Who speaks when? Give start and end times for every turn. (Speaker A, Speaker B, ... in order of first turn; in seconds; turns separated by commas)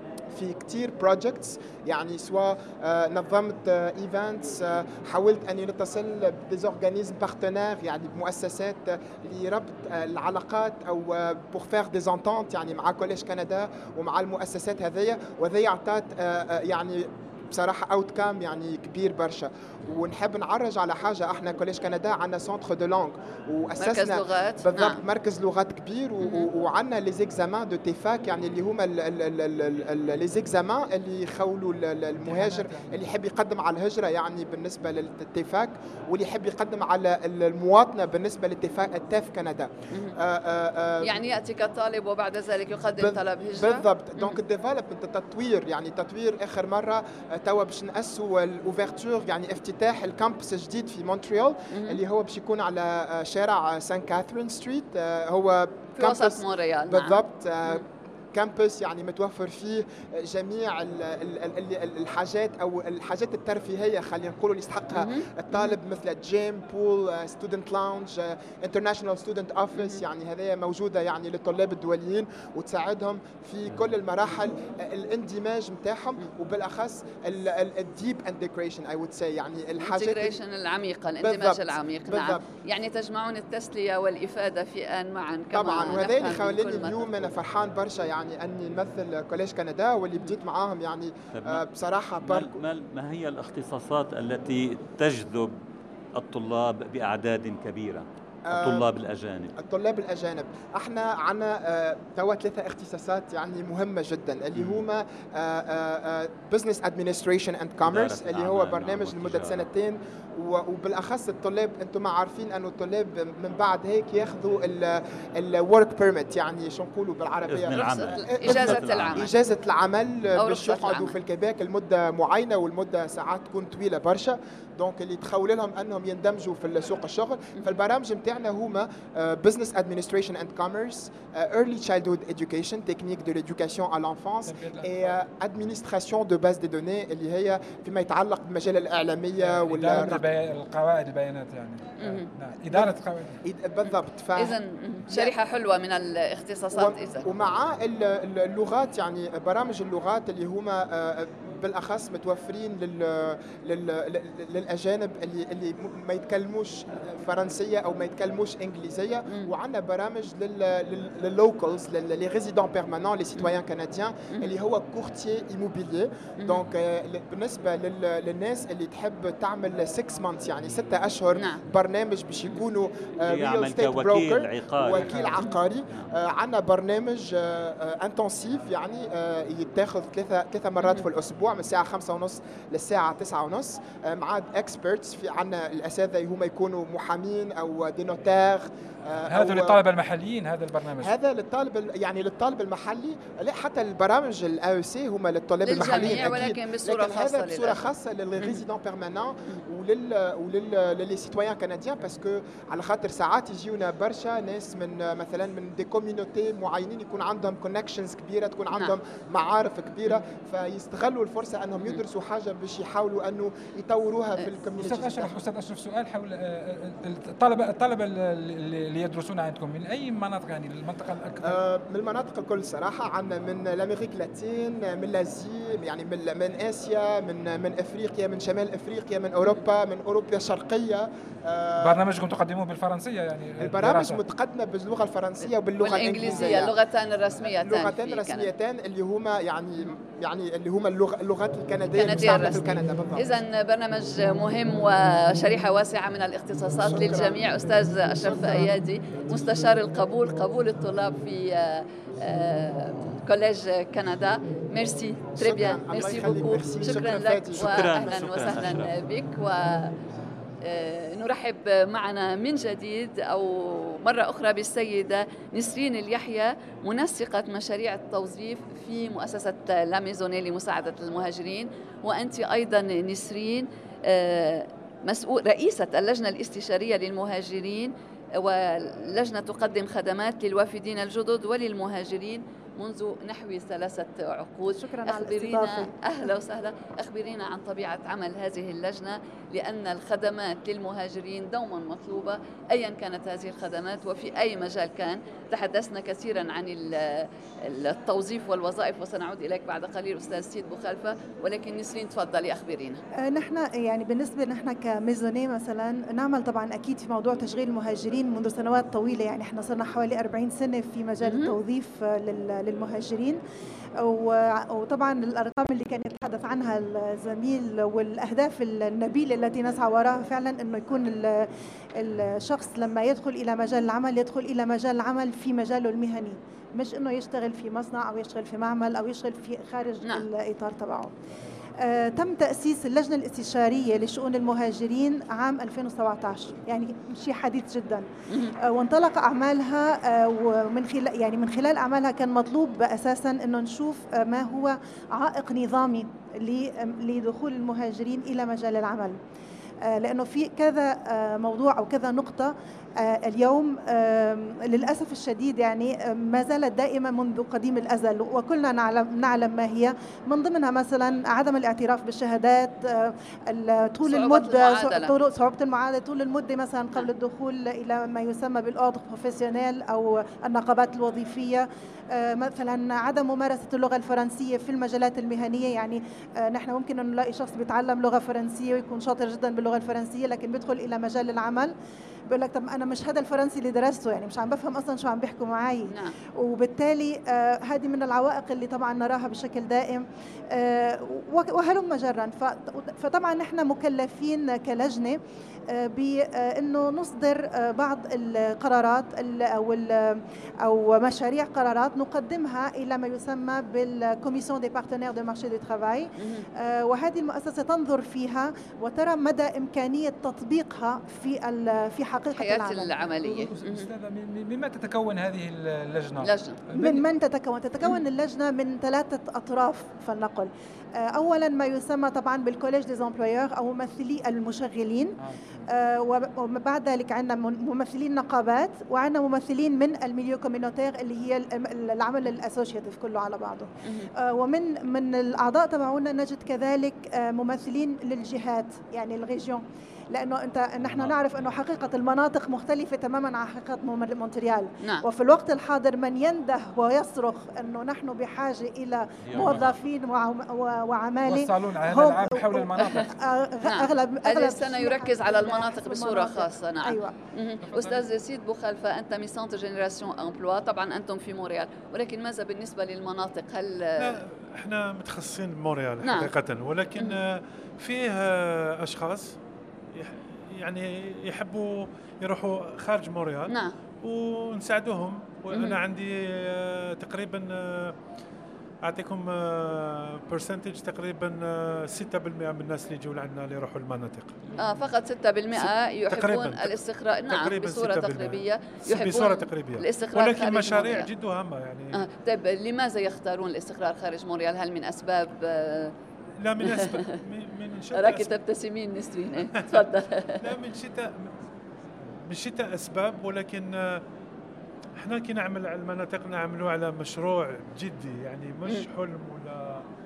Speaker A: 0.3-41.2, Speaker B: 23.8-25.0, Speaker B: 26.2-26.5, Speaker C: 32.2-33.0, Speaker B: 41.0-44.4, Speaker A: 43.0-80.4, Speaker B: 51.7-52.0, Speaker B: 56.0-57.8, Speaker B: 64.9-65.8, Speaker B: 69.8-70.0, Speaker B: 79.8-87.1, Speaker A: 81.2-82.4, Speaker A: 85.5-92.6, Speaker D: 91.3-91.7, Speaker D: 92.2-95.6, Speaker D: 96.2-99.5, Speaker A: 98.5-98.9, Speaker A: 99.6-140.3, Speaker D: 104.5-104.8, Speaker D: 107.8-109.7, Speaker D: 117.5-119.3, Speaker B: 117.8-119.3, Speaker B: 120.4-121.2, Speaker C: 134.5-135.0, Speaker C: 139.4-143.4, Speaker B: 142.0-142.3, Speaker A: 142.7-145.3, Speaker B: 143.8-147.3, Speaker A: 146.7-189.8, Speaker D: 173.2-175.2, Speaker C: 174.9-175.5, Speaker C: 189.3-191.1, Speaker A: 191.0-215.4, Speaker B: 195.7-197.8, Speaker C: 214.8-221.6, Speaker A: 221.4-232.0, Speaker C: 231.8-234.2, Speaker A: 233.6-236.7, Speaker B: 235.8-238.5, Speaker C: 236.2-236.6, Speaker A: 237.4-243.3, Speaker B: 241.9-259.9, Speaker A: 246.8-247.5, Speaker A: 248.1-248.8, Speaker A: 255.4-258.5, Speaker D: 257.6-258.9, Speaker B: 260.6-303.0, Speaker E: 284.6-285.9, Speaker E: 303.1-313.4, Speaker B: 311.2-311.6, Speaker E: 314.0-331.1, Speaker E: 331.8-338.1, Speaker E: 338.6-349.2, Speaker E: 349.9-381.7, Speaker B: 364.1-365.1, Speaker E: 382.3-412.9, Speaker B: 385.9-386.1, Speaker B: 412.4-413.9, Speaker C: 413.2-417.1, Speaker B: 416.2-416.6, Speaker E: 416.7-457.1, Speaker D: 440.8-441.5, Speaker D: 449.2-449.8, Speaker C: 451.2-453.1, Speaker B: 453.6-464.2, Speaker C: 457.6-458.1, Speaker F: 464.0-469.4, Speaker B: 466.0-466.3, Speaker F: 469.9-478.0, Speaker B: 473.5-473.8, Speaker B: 475.5-475.8, Speaker F: 478.8-484.4, Speaker C: 484.5-484.8, Speaker B: 484.6-491.1, Speaker F: 485.5-492.1, Speaker B: 491.9-495.9, Speaker F: 496.4-498.3, Speaker B: 496.6-497.1, Speaker B: 497.9-500.5, Speaker F: 499.5-499.9, Speaker F: 500.4-501.4, Speaker F: 502.1-504.0, Speaker F: 505.0-509.9